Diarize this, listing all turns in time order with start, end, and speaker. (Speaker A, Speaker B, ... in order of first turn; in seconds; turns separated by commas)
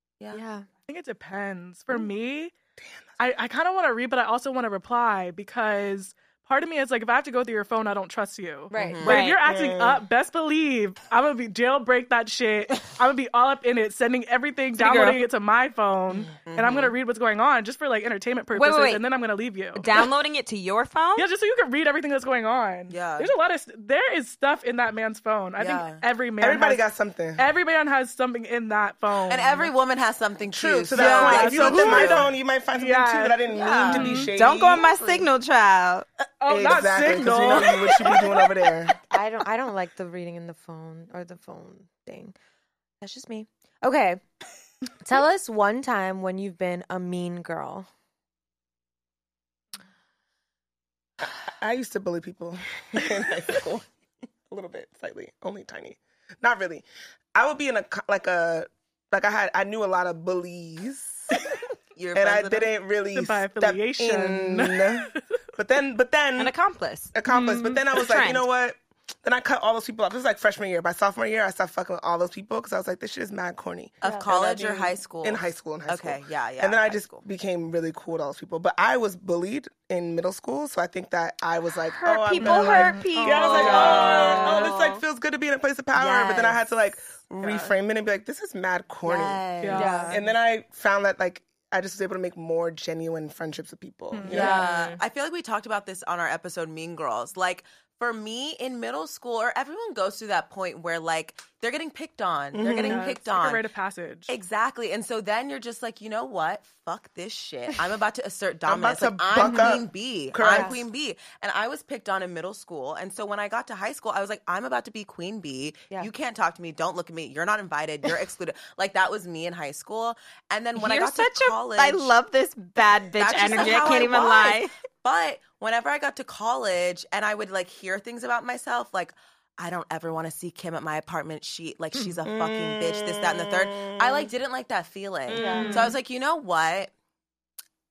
Speaker A: 0.3-0.7, Speaker B: 0.9-2.5, Speaker C: 2.8-3.1, Speaker B: 3.2-19.9, Speaker A: 8.7-9.0, Speaker D: 8.7-9.2, Speaker E: 9.0-9.4, Speaker C: 9.4-10.0, Speaker E: 14.8-15.2, Speaker D: 16.4-16.9, Speaker E: 18.5-19.0, Speaker E: 19.7-21.3, Speaker B: 21.1-26.8, Speaker D: 22.9-23.3, Speaker D: 25.6-26.0, Speaker C: 26.4-27.4, Speaker B: 27.4-29.7, Speaker D: 29.3-32.3, Speaker C: 30.5-34.9, Speaker B: 30.9-34.3, Speaker D: 33.5-34.1, Speaker E: 34.1-36.1, Speaker D: 34.8-35.2, Speaker B: 36.4-38.5, Speaker C: 36.5-38.9, Speaker A: 39.1-42.3, Speaker A: 43.0-44.2, Speaker A: 45.0-47.9, Speaker C: 51.2-53.9, Speaker C: 54.5-61.4, Speaker D: 62.0-62.7, Speaker C: 62.1-66.5, Speaker B: 63.1-65.2, Speaker E: 66.4-67.2, Speaker C: 67.1-94.6, Speaker B: 67.3-68.0, Speaker E: 68.0-68.4, Speaker D: 74.0-77.2, Speaker E: 81.9-85.0, Speaker B: 82.4-84.4, Speaker D: 83.4-84.9, Speaker E: 86.0-86.5, Speaker D: 86.0-86.3, Speaker B: 87.4-87.7, Speaker D: 89.0-90.0, Speaker B: 89.6-90.3, Speaker A: 89.7-90.2, Speaker B: 94.1-94.5, Speaker D: 94.2-103.7, Speaker A: 94.3-94.7, Speaker E: 94.3-95.0, Speaker C: 102.5-103.1, Speaker B: 102.7-104.3, Speaker D: 104.3-122.1, Speaker C: 108.6-110.8, Speaker A: 109.4-109.8, Speaker A: 110.5-110.8, Speaker E: 120.8-124.7, Speaker D: 123.2-136.9, Speaker C: 132.2-134.3, Speaker E: 135.3-135.9, Speaker A: 135.3-135.9